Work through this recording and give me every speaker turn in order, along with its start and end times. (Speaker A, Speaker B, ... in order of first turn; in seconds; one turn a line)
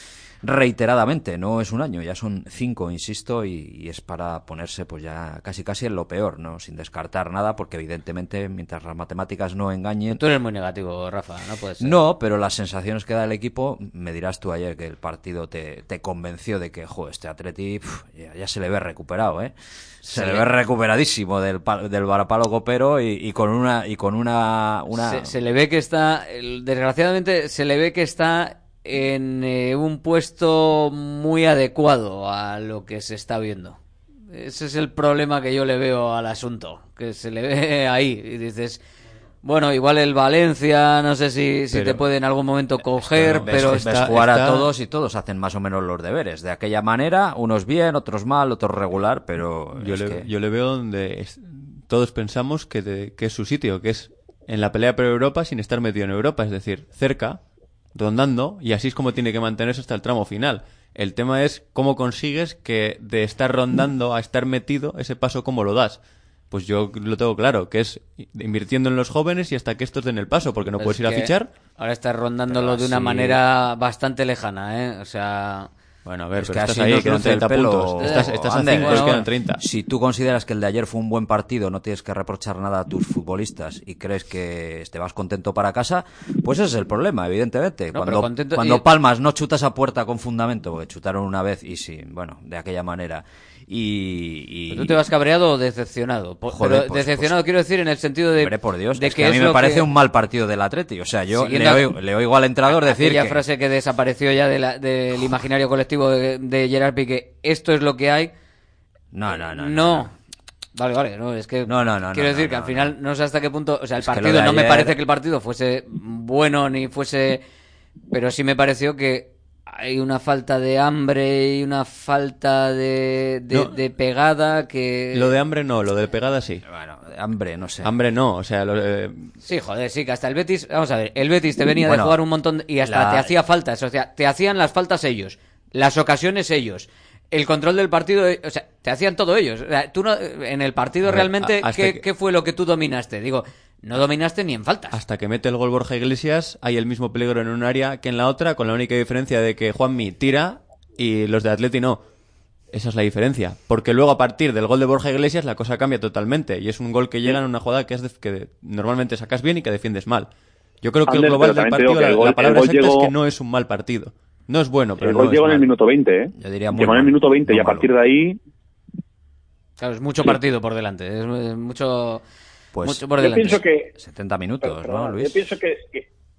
Speaker A: 0.4-10.2
Speaker B: 10.2-12.0
Speaker A: 11.8-25.3
Speaker B: 20.1-20.5
Speaker B: 24.9-33.8
Speaker B: 34.3-38.8
Speaker B: 39.4-43.9
Speaker C: 41.7-42.0
Speaker A: 43.1-50.3
Speaker C: 43.2-44.7
Speaker C: 49.8-57.4
Speaker C: 58.0-66.0
Speaker C: 66.5-71.5
Speaker B: 70.8-75.7
Speaker C: 76.0-79.6
Speaker A: 76.4-95.0
Speaker B: 78.0-79.2
Speaker B: 87.9-88.9
Speaker B: 94.7-99.9
Speaker A: 96.5-97.4
Speaker A: 98.3-103.4
Speaker B: 101.3-101.9
Speaker B: 102.7-108.3
Speaker A: 109.1-110.1
Speaker B: 109.5-110.1
Speaker B: 110.8-117.4
Speaker A: 111.7-113.0
Speaker A: 114.0-115.0
Speaker B: 118.1-125.3
Speaker C: 125.1-126.6
Speaker A: 126.7-127.9
Speaker C: 127.8-129.3
Speaker B: 129.4-145.0
Speaker A: 131.8-132.2
Speaker A: 132.8-133.3
Speaker C: 141.1-142.0
Speaker C: 144.9-152.0
Speaker C: 152.7-160.3
Speaker C: 160.8-165.7
Speaker D: 161.1-163.1
Speaker D: 165.0-168.4
Speaker A: 166.3-167.9
Speaker B: 169.8-172.2
Speaker A: 172.7-175.5
Speaker B: 172.8-173.6
Speaker E: 173.2-173.9
Speaker E: 174.6-176.1